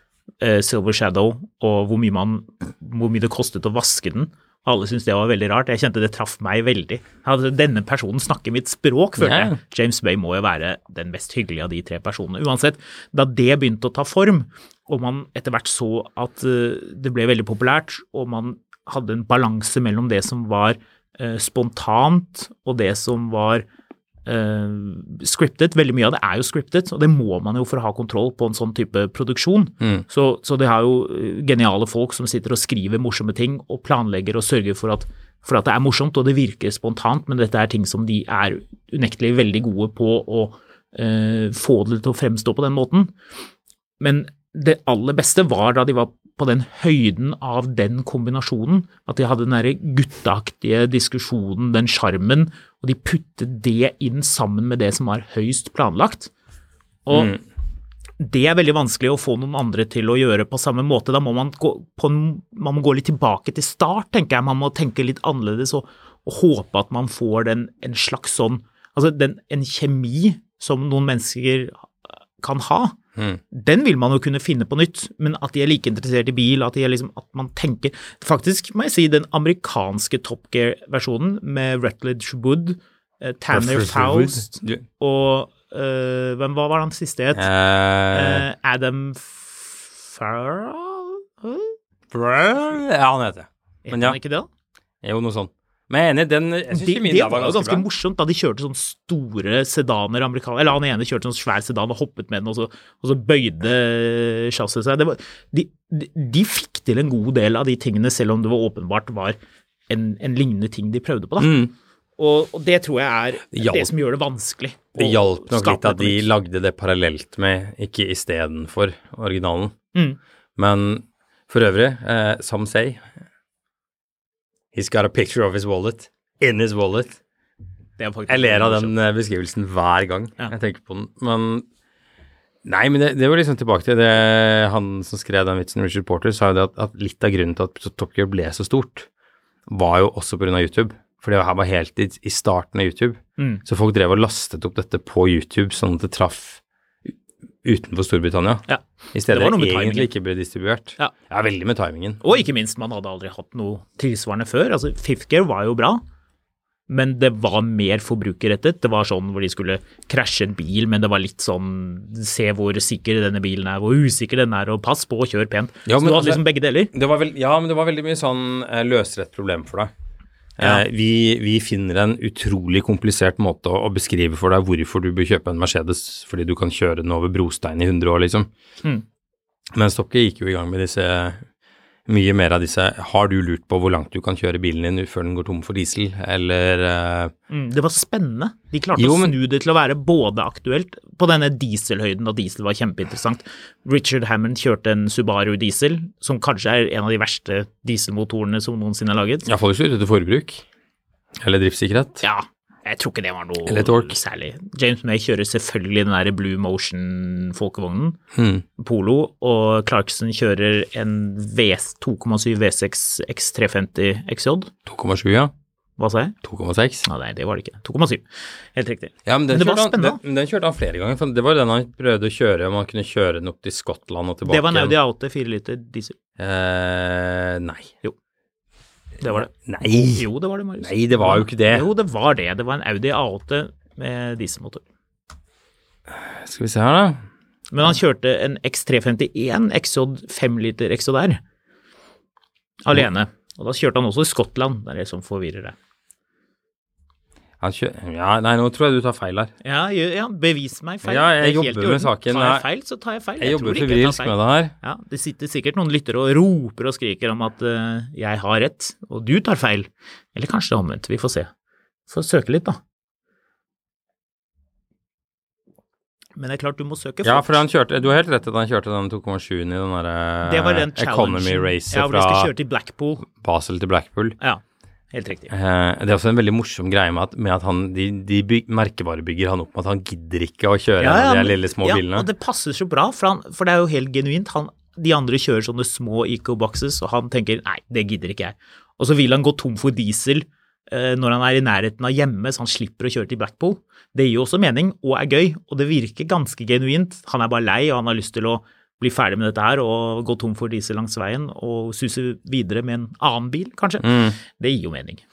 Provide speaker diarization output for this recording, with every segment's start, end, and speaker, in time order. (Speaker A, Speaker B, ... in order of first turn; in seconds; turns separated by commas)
Speaker A: 0.4-23.6, Speaker B: 9.2-9.6, Speaker A: 24.3-43.1, Speaker A: 44.0-56.3, Speaker A: 57.1-57.4, Speaker B: 57.1-57.4, Speaker A: 58.2-73.0, Speaker B: 73.2-73.4, Speaker A: 73.5-87.5, Speaker B: 83.5-84.9, Speaker B: 87.3-88.5, Speaker A: 88.1-91.7, Speaker B: 92.1-94.2, Speaker A: 93.8-94.5, Speaker B: 95.0-97.9, Speaker A: 96.7-109.4, Speaker A: 109.9-111.6, Speaker B: 111.4-111.7, Speaker A: 112.2-116.3, Speaker B: 113.5-113.9, Speaker B: 115.0-119.8, Speaker B: 120.6-123.1, Speaker B: 124.7-127.2, Speaker A: 128.0-129.0, Speaker B: 128.3-131.7, Speaker B: 132.6-139.1, Speaker B: 139.7-146.6, Speaker A: 143.4-143.6, Speaker B: 147.6-152.4, Speaker A: 148.7-150.1, Speaker A: 152.2-156.0, Speaker A: 156.9-166.9, Speaker B: 165.9-169.9, Speaker B: 170.6-178.5, Speaker B: 179.7-181.4, Speaker B: 182.1-187.3, Speaker A: 187.5-199.5, Speaker B: 188.9-189.4, Speaker B: 199.4-200.7, Speaker B: 201.4-202.2, Speaker A: 202.2-208.2, Speaker B: 203.7-204.2, Speaker B: 208.3-208.7, Speaker A: 208.8-214.7, Speaker B: 214.9-215.5, Speaker A: 216.0-216.3, Speaker B: 216.4-217.1, Speaker A: 217.1-220.2, Speaker B: 219.2-225.0, Speaker A: 224.5-226.2, Speaker B: 226.4-227.9, Speaker A: 229.2-234.8, Speaker B: 229.2-230.3, Speaker B: 230.8-231.9, Speaker B: 236.1-237.3, Speaker A: 237.7-241.4, Speaker A: 242.8-245.8, Speaker B: 247.6-249.5, Speaker A: 249.6-261.5, Speaker B: 251.0-252.7, Speaker B: 253.4-254.7, Speaker A: 262.1-262.8, Speaker A: 266.4-267.6, Speaker B: 267.2-272.5, Speaker A: 270.4-273.3, Speaker B: 273.3-274.4, Speaker A: 274.4-275.5, Speaker B: 275.5-282.3, Speaker A: 281.0-305.2, Speaker B: 304.0-304.4